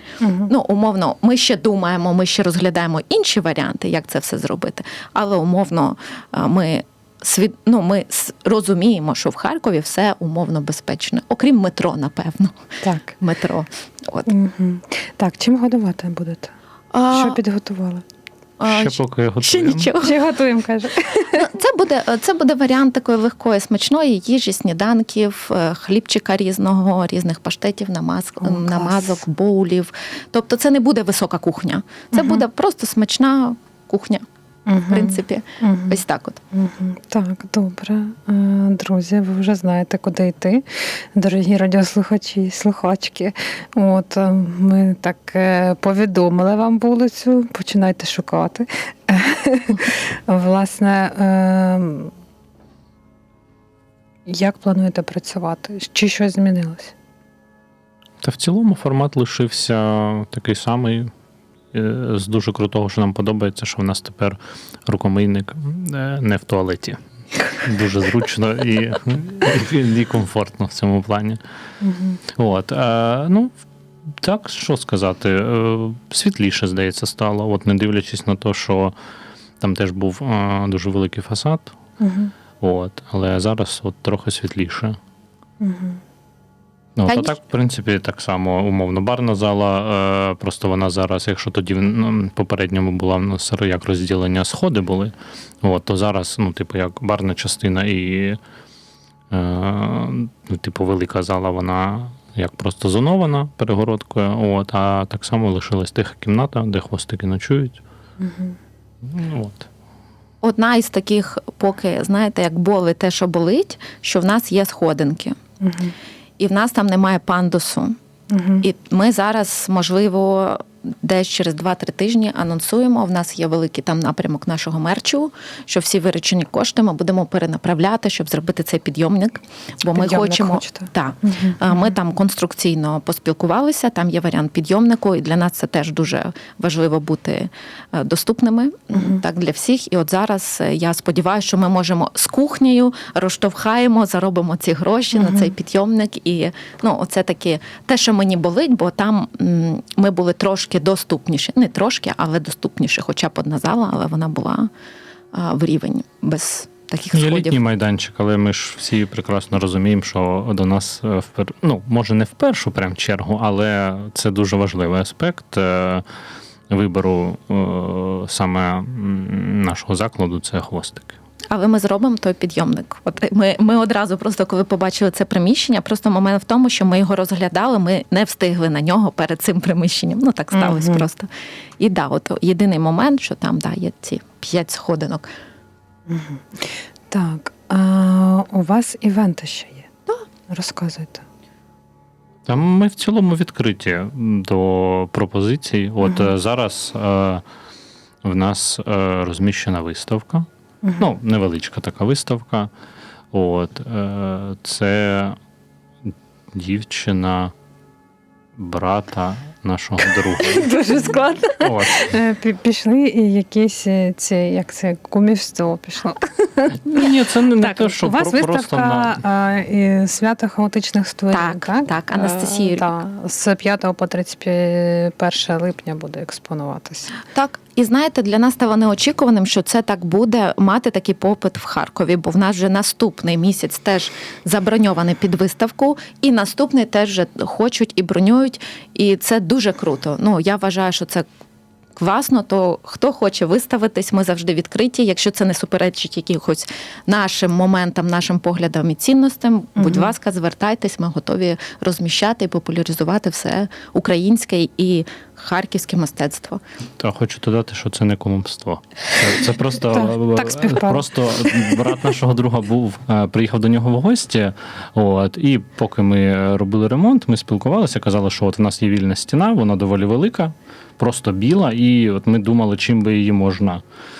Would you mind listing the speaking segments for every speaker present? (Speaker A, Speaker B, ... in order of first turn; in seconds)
Speaker A: 0.2-0.5, 12.8-13.1, 14.3-16.5, 17.2-18.0, 20.0-21.4, 28.4-29.2, 32.1-32.4, 34.7-36.0, 36.5-52.1, 54.3-56.9, 71.8-72.2, 82.0-82.3, 85.6-86.0, 108.2-108.5, 115.6-115.9, 118.3-118.6, 129.9-131.7, 180.5-181.0, 186.1-189.9, 190.5-191.2, 196.0-196.3, 200.8-201.1, 210.3-217.0, 217.6-227.1, 259.9-261.8
Speaker B: 0.5-12.5, 13.2-14.3, 16.9-17.4, 18.6-20.1, 21.3-34.2, 34.9-36.4, 87.1-87.3, 110.4-115.3, 116.4-117.9, 118.6-154.7, 155.3-157.6, 171.5-185.3, 221.3-223.0, 227.3-241.2, 241.9-256.6
Speaker C: 18.6-19.9, 58.2-61.1, 61.7-67.0, 67.6-71.4, 72.4-73.5, 74.2-78.9, 79.6-81.7, 82.6-85.0, 87.0-98.4, 99.3-107.8, 109.0-109.7, 157.1-166.0, 166.7-171.1, 192.5-197.4, 198.2-200.5, 201.0-202.7, 203.3-205.4, 206.1-207.5, 208.6-211.0, 211.6-212.1, 216.8-219.2, 257.0-273.8